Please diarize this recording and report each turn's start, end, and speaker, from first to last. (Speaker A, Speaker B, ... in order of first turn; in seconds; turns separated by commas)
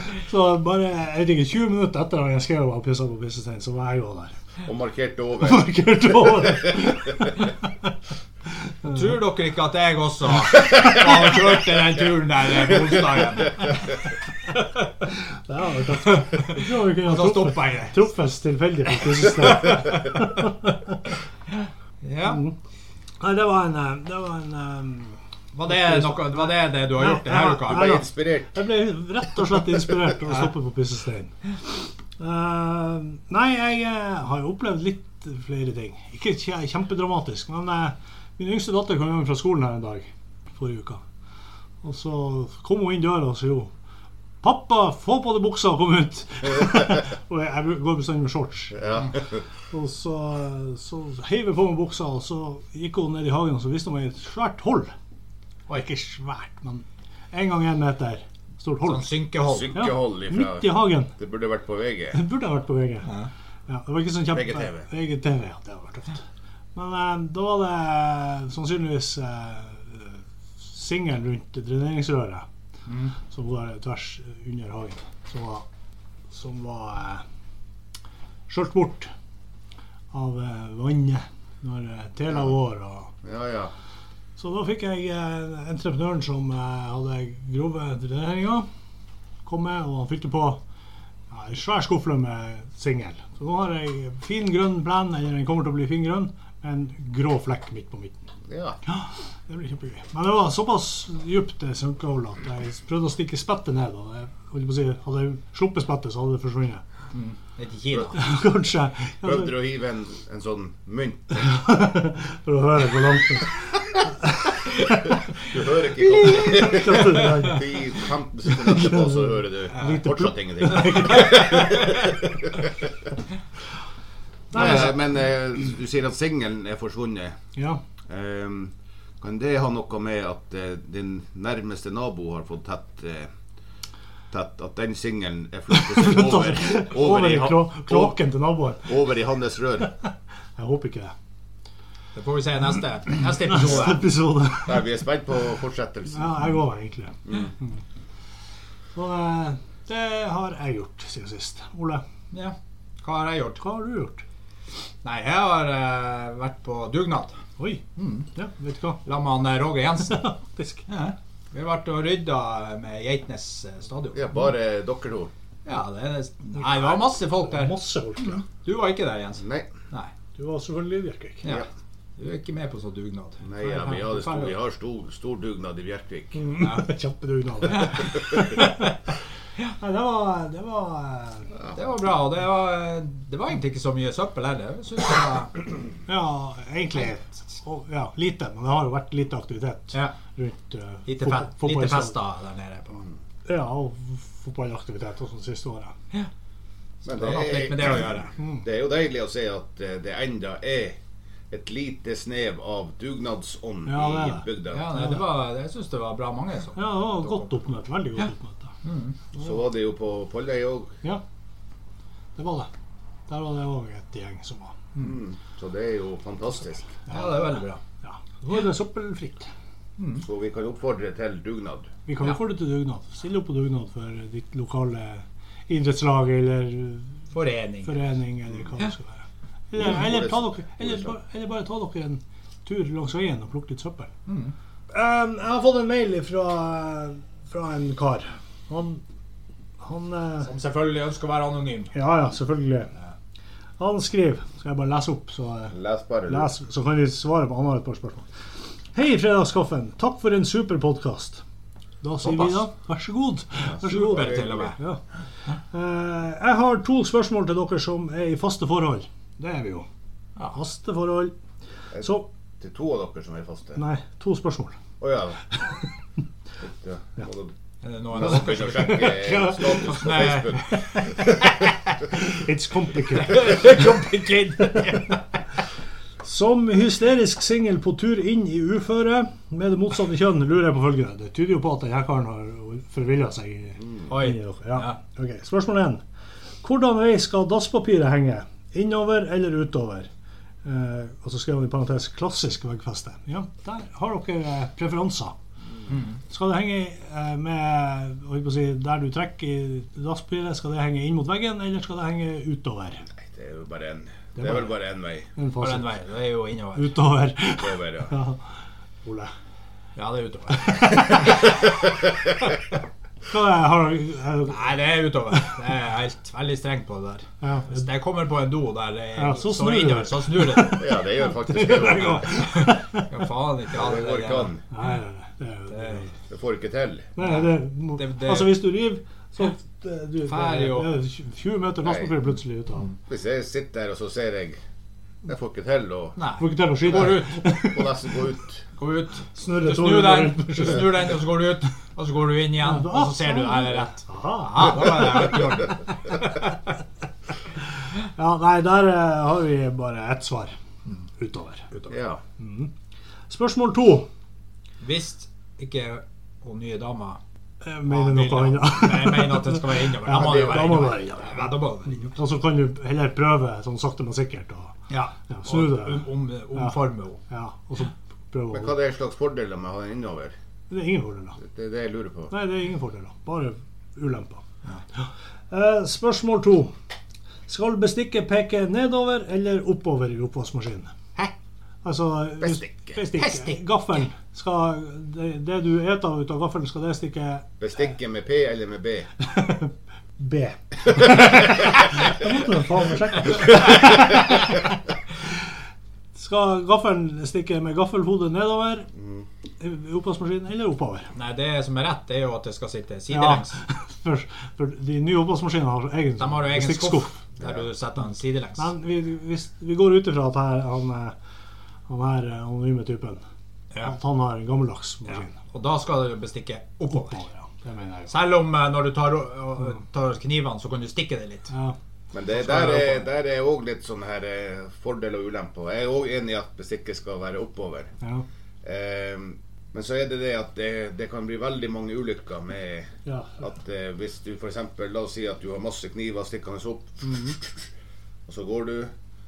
Speaker A: 0.1-4.4, Speaker B: 4.6-7.1, Speaker A: 5.4-7.5, Speaker C: 8.9-13.6, Speaker A: 15.0-21.0, Speaker C: 16.1-18.0, Speaker C: 19.6-19.8, Speaker C: 21.5-22.4, Speaker A: 22.2-22.6, Speaker A: 23.2-41.0, Speaker C: 25.5-28.0, Speaker B: 27.7-28.6, Speaker A: 41.8-43.7, Speaker A: 44.4-48.8, Speaker B: 48.7-49.4, Speaker A: 49.7-54.9, Speaker A: 55.7-59.1, Speaker C: 58.8-59.8, Speaker B: 59.5-62.2, Speaker A: 59.7-61.1, Speaker A: 62.1-63.1, Speaker A: 63.7-66.2, Speaker B: 64.3-64.9, Speaker A: 66.8-72.5, Speaker C: 72.9-73.1, Speaker A: 73.2-75.7, Speaker A: 76.3-77.2, Speaker A: 78.5-79.1, Speaker A: 80.1-83.1, Speaker B: 83.2-83.7, Speaker A: 84.4-88.7, Speaker A: 89.5-90.6, Speaker A: 91.3-98.2, Speaker B: 98.5-98.8, Speaker A: 98.9-106.8, Speaker C: 107.1-108.2, Speaker A: 108.2-109.5, Speaker B: 109.2-111.5, Speaker A: 111.4-115.1, Speaker B: 115.4-122.7, Speaker C: 116.2-116.6, Speaker A: 116.2-117.8, Speaker A: 118.5-121.8, Speaker A: 124.5-125.0, Speaker B: 124.5-127.4, Speaker A: 127.5-127.8, Speaker B: 128.1-133.3, Speaker B: 134.3-138.2, Speaker A: 135.7-139.0, Speaker B: 138.8-139.9, Speaker A: 140.0-141.2, Speaker C: 142.2-144.1, Speaker A: 143.5-144.9, Speaker B: 144.6-146.3, Speaker A: 146.1-147.8, Speaker A: 148.9-152.0, Speaker C: 152.3-153.6, Speaker A: 153.6-154.2, Speaker C: 155.0-157.4, Speaker A: 157.6-157.8, Speaker C: 158.0-158.3, Speaker A: 158.3-159.0, Speaker C: 159.1-160.3, Speaker A: 160.1-160.9, Speaker C: 160.9-164.3, Speaker B: 164.1-165.3, Speaker C: 165.7-170.1, Speaker A: 166.6-166.9, Speaker A: 167.5-168.4, Speaker B: 169.4-169.7, Speaker A: 170.3-171.4, Speaker C: 172.2-174.5, Speaker B: 173.4-176.4, Speaker A: 176.4-178.9, Speaker C: 176.6-176.9, Speaker C: 177.7-178.0, Speaker A: 179.8-181.5, Speaker C: 181.7-185.6, Speaker A: 186.1-192.2, Speaker C: 191.1-193.0, Speaker A: 193.5-195.9, Speaker B: 197.1-201.0, Speaker C: 197.1-198.3, Speaker A: 198.4-198.7, Speaker B: 201.5-204.9, Speaker A: 203.9-205.2, Speaker C: 204.7-207.5, Speaker A: 206.8-208.7, Speaker C: 208.8-209.2, Speaker B: 209.3-210.9, Speaker A: 212.4-212.7, Speaker A: 213.3-214.8, Speaker B: 215.0-217.0, Speaker A: 217.1-219.5, Speaker C: 217.1-217.8, Speaker C: 220.0-220.2, Speaker B: 220.2-221.9, Speaker A: 222.1-227.2, Speaker C: 227.3-227.9, Speaker A: 227.8-234.1, Speaker B: 229.8-231.2, Speaker C: 234.3-234.5, Speaker A: 234.9-239.0, Speaker A: 239.8-240.5, Speaker C: 240.4-241.9, Speaker A: 241.9-242.9, Speaker A: 243.8-245.8, Speaker B: 245.7-246.5, Speaker A: 246.3-248.3, Speaker A: 248.9-251.4, Speaker A: 252.0-254.3, Speaker B: 253.6-254.8, Speaker C: 253.8-254.8, Speaker A: 255.7-259.9, Speaker A: 260.5-261.4, Speaker B: 261.9-263.8, Speaker A: 262.0-262.3, Speaker A: 263.8-264.8, Speaker B: 265.0-265.4, Speaker B: 266.6-267.5, Speaker C: 267.8-269.2, Speaker B: 268.1-271.0, Speaker A: 268.5-271.1, Speaker C: 269.8-270.8, Speaker A: 272.1-275.2, Speaker C: 273.3-275.1, Speaker A: 276.2-286.0, Speaker C: 284.1-285.0, Speaker A: 286.6-290.1, Speaker A: 290.6-295.4, Speaker C: 295.9-296.2, Speaker A: 296.3-303.1, Speaker B: 303.2-305.3, Speaker A: 304.4-304.7, Speaker A: 305.4-306.0, Speaker C: 305.6-307.0, Speaker A: 306.8-308.4, Speaker B: 307.6-308.1, Speaker A: 309.1-309.3, Speaker C: 310.0-311.5, Speaker A: 310.5-311.3, Speaker B: 311.8-312.4, Speaker A: 313.3-314.8, Speaker C: 314.5-320.9, Speaker A: 317.4-317.9, Speaker A: 319.2-323.1, Speaker B: 320.7-322.3, Speaker C: 322.3-324.5, Speaker B: 323.7-324.6, Speaker A: 324.7-326.1, Speaker C: 325.7-326.1, Speaker B: 326.3-327.1, Speaker A: 327.2-332.9, Speaker C: 327.2-328.6, Speaker C: 330.3-330.9, Speaker B: 331.8-332.2, Speaker B: 333.1-334.6, Speaker B: 335.2-336.2, Speaker C: 336.2-337.5, Speaker A: 336.4-338.1, Speaker B: 336.9-338.6, Speaker C: 338.8-346.5, Speaker A: 339.3-341.0, Speaker A: 342.6-345.5, Speaker A: 348.2-350.6, Speaker A: 351.2-351.7, Speaker B: 351.9-352.2, Speaker A: 352.4-352.7, Speaker A: 353.3-354.1, Speaker C: 354.8-357.2, Speaker A: 357.6-364.8, Speaker C: 357.9-362.1, Speaker B: 360.2-360.7, Speaker C: 364.9-367.2, Speaker A: 365.3-368.7, Speaker B: 368.5-370.4, Speaker A: 370.7-371.4, Speaker B: 371.4-372.3, Speaker A: 372.3-374.4, Speaker A: 374.9-376.7, Speaker A: 377.5-380.9, Speaker A: 381.8-387.5, Speaker B: 382.4-383.0, Speaker C: 383.1-383.6, Speaker B: 387.6-389.1, Speaker A: 389.2-394.6, Speaker A: 396.1-398.9, Speaker B: 399.0-399.3, Speaker A: 399.6-401.1, Speaker C: 401.1-403.6, Speaker A: 403.1-407.2, Speaker C: 406.2-408.7, Speaker A: 408.6-411.1, Speaker A: 411.9-413.2, Speaker A: 413.8-415.3, Speaker C: 415.1-417.2, Speaker A: 416.9-418.1, Speaker C: 418.1-421.5, Speaker A: 421.5-421.8, Speaker B: 422.1-427.9, Speaker B: 428.6-437.7, Speaker A: 433.1-433.4, Speaker B: 438.3-438.9